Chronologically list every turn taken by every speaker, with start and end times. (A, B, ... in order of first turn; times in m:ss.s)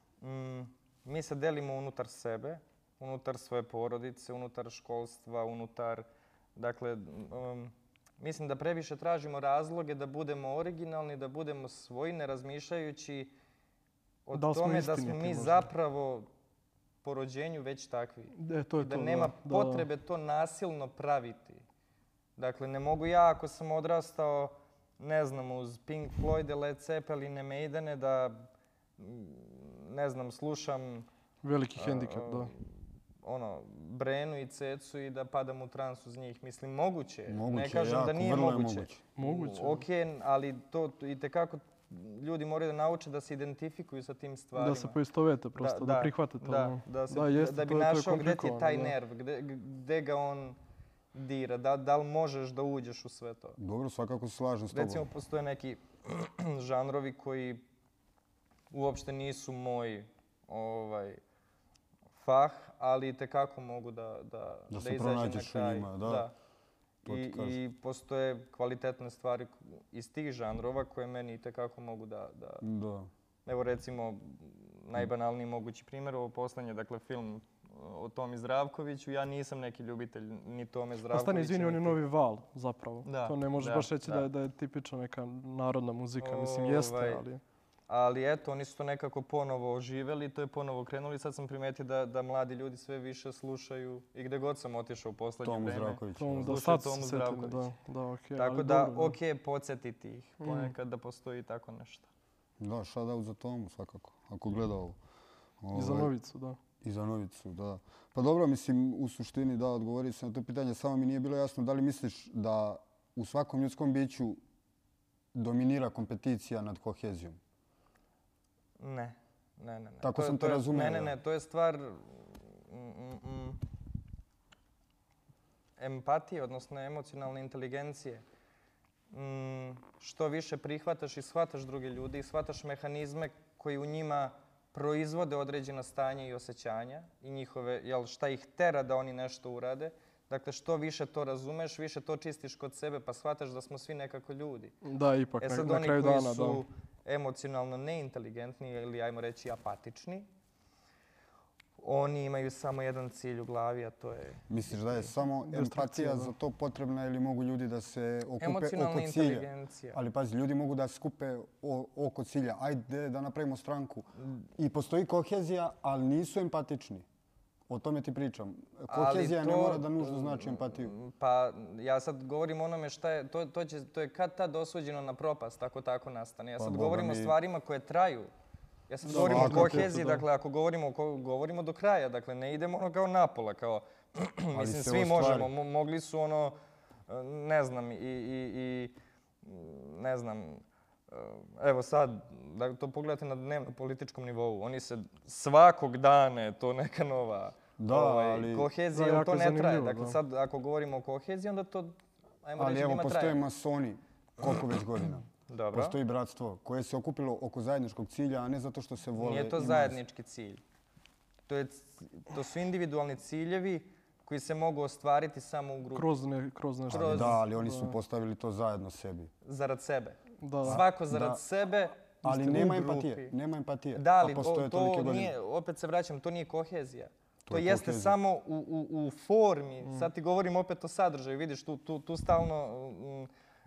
0:00.2-0:13.3 A
0:14.2-0:16.3 A
0:14.3-0:15.7 B
0:17.0-0:21.6 A
0:18.3-0:19.9 B
0:22.4-0:31.1 A
0:31.4-0:32.5 B
0:31.8-0:32.7 A
0:33.2-0:45.0 A
0:37.3-0:39.0 C
0:39.2-0:39.8 B
0:44.6-0:48.9 B
0:45.6-0:50.6 A
0:51.1-0:53.6 A
0:53.6-0:55.1 C
0:54.7-0:57.7 A
0:58.7-1:01.2 A
1:02.1-1:06.3 A
1:04.7-1:06.3 C
1:07.0-1:07.6 C
1:07.0-1:12.6 A
1:12.6-1:13.1 C
1:13.4-1:22.0 A
1:21.1-1:27.4 B
1:23.0-1:24.3 A
1:26.2-1:27.2 A
1:27.9-1:37.7 A
1:35.4-1:36.6 C
1:36.2-1:39.2 B
1:38.3-1:42.1 A
1:40.4-1:40.7 B
1:42.6-1:45.0 C
1:45.6-1:46.1 C
1:45.7-1:46.6 B
1:46.8-1:54.4 C
1:55.3-1:57.4 C
1:58.8-2:03.6 A
2:00.0-2:01.2 C
2:05.8-2:08.2 A
2:09.1-2:24.7 A
2:24.8-2:26.6 B
2:25.4-2:30.3 A
2:31.8-2:34.4 A
2:34.5-2:47.0 C
2:35.5-2:36.3 B
2:38.4-2:40.0 A
2:47.7-2:50.9 C
2:48.9-2:58.3 A
2:56.6-2:57.4 C
2:58.9-3:06.6 A
2:59.0-3:00.2 B
2:59.1-3:00.0 C
3:04.5-3:05.5 C
3:07.1-3:23.4 A
3:17.8-3:18.7 C
3:18.9-3:20.2 B
3:22.6-3:30.0 C
3:25.5-3:26.0 A
3:29.2-3:30.6 A
3:31.5-3:36.1 A
3:35.9-3:37.9 B
3:36.9-3:37.4 A
3:36.9-3:39.3 C
3:39.4-3:43.3 A
3:40.4-3:40.8 B
3:40.6-3:41.4 C
3:42.2-3:45.3 C
3:43.9-3:53.3 A
3:47.4-3:48.2 C